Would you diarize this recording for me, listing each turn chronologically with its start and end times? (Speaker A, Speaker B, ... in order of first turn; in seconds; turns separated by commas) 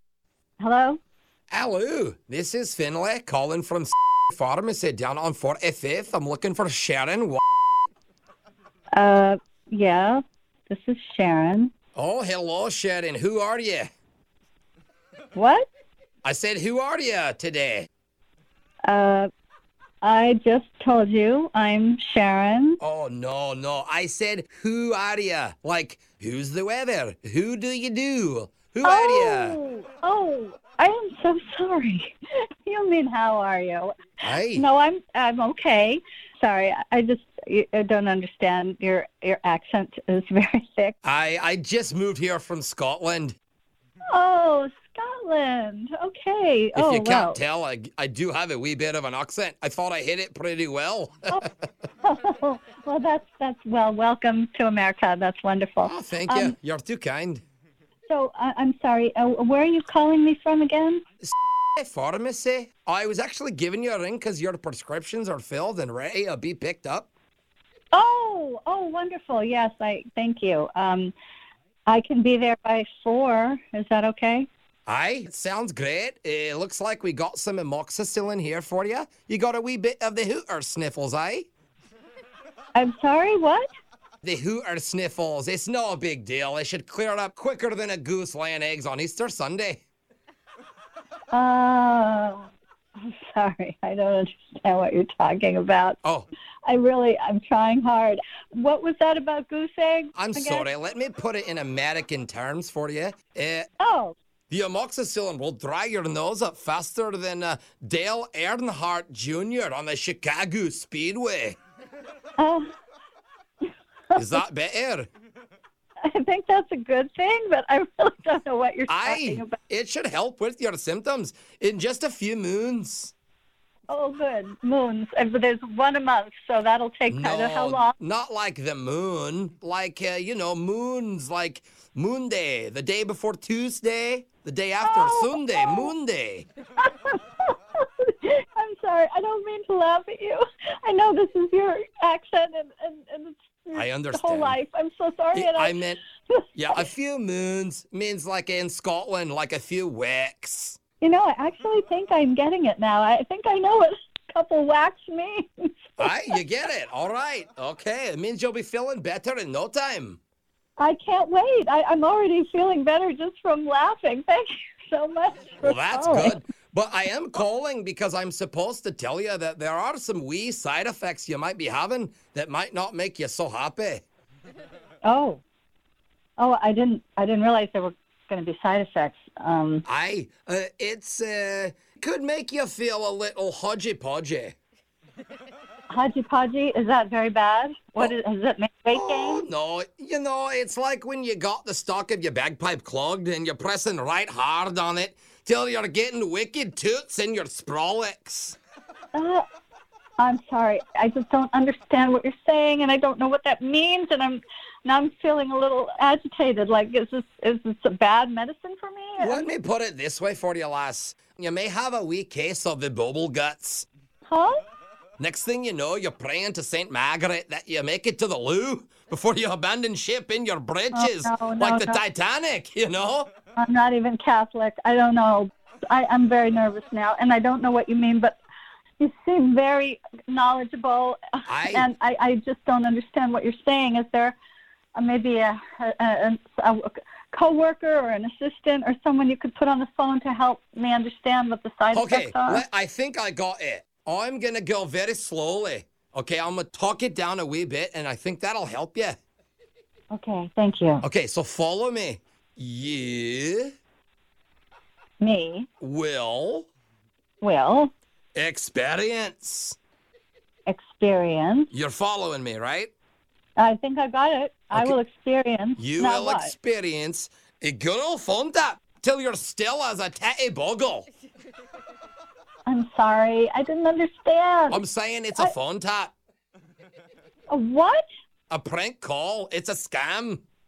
Speaker A: 0.6-1.0, Speaker B: 1.5-7.4, Speaker A: 8.9-11.7, Speaker B: 11.9-13.9, Speaker A: 15.3-15.7, Speaker B: 16.2-17.9, Speaker A: 18.8-19.3, Speaker A: 20.0-22.8, Speaker B: 22.8-29.6, Speaker A: 28.8-41.0, Speaker B: 34.2-34.6, Speaker B: 41.0-43.4, Speaker A: 44.1-47.4, Speaker B: 46.8-51.4, Speaker A: 52.0-56.5, Speaker B: 55.8-57.4, Speaker A: 58.1-61.0, Speaker B: 61.2-67.1, Speaker A: 67.9-71.1, Speaker A: 71.8-74.5, Speaker B: 74.9-81.5, Speaker A: 82.7-83.7, Speaker B: 84.2-89.8, Speaker A: 91.3-96.0, Speaker B: 96.0-96.3, Speaker A: 96.7-100.7, Speaker B: 100.2-103.7, Speaker A: 103.8-104.1, Speaker B: 104.5-111.6, Speaker A: 112.4-112.7, Speaker A: 114.1-114.4, Speaker B: 114.2-115.1, Speaker A: 116.0-119.6, Speaker B: 118.9-123.1, Speaker A: 123.9-127.9, Speaker B: 127.1-136.5, Speaker A: 134.8-135.9, Speaker A: 136.8-146.8, Speaker B: 143.7-144.6, Speaker B: 145.3-146.0, Speaker B: 146.6-150.8, Speaker A: 151.0-156.3, Speaker B: 156.0-160.2, Speaker A: 160.8-166.4, Speaker B: 165.6-174.0, Speaker A: 175.0-175.4, Speaker A: 176.4-179.8, Speaker B: 179.8-184.6, Speaker A: 185.9-189.4, Speaker B: 188.9-198.6, Speaker A: 199.1-199.4, Speaker A: 200.2-209.5, Speaker B: 209.2-213.8, Speaker A: 214.3-214.6, Speaker B: 215.2-223.3, Speaker A: 220.9-222.0, Speaker A: 223.6-228.4, Speaker A: 229.0-234.3, Speaker B: 231.5-231.9, Speaker A: 234.9-242.6, Speaker B: 241.9-249.2, Speaker A: 250.1-251.0, Speaker B: 251.0-253.7, Speaker A: 255.2-255.7, Speaker B: 255.8-256.7, Speaker A: 257.4-257.9, Speaker B: 258.3-259.8, Speaker A: 260.6-261.7, Speaker B: 261.7-262.9, Speaker A: 263.6-266.5, Speaker B: 265.8-271.1, Speaker A: 272.6-274.8, Speaker B: 274.7-276.1, Speaker A: 277.5-278.1, Speaker B: 278.5-280.4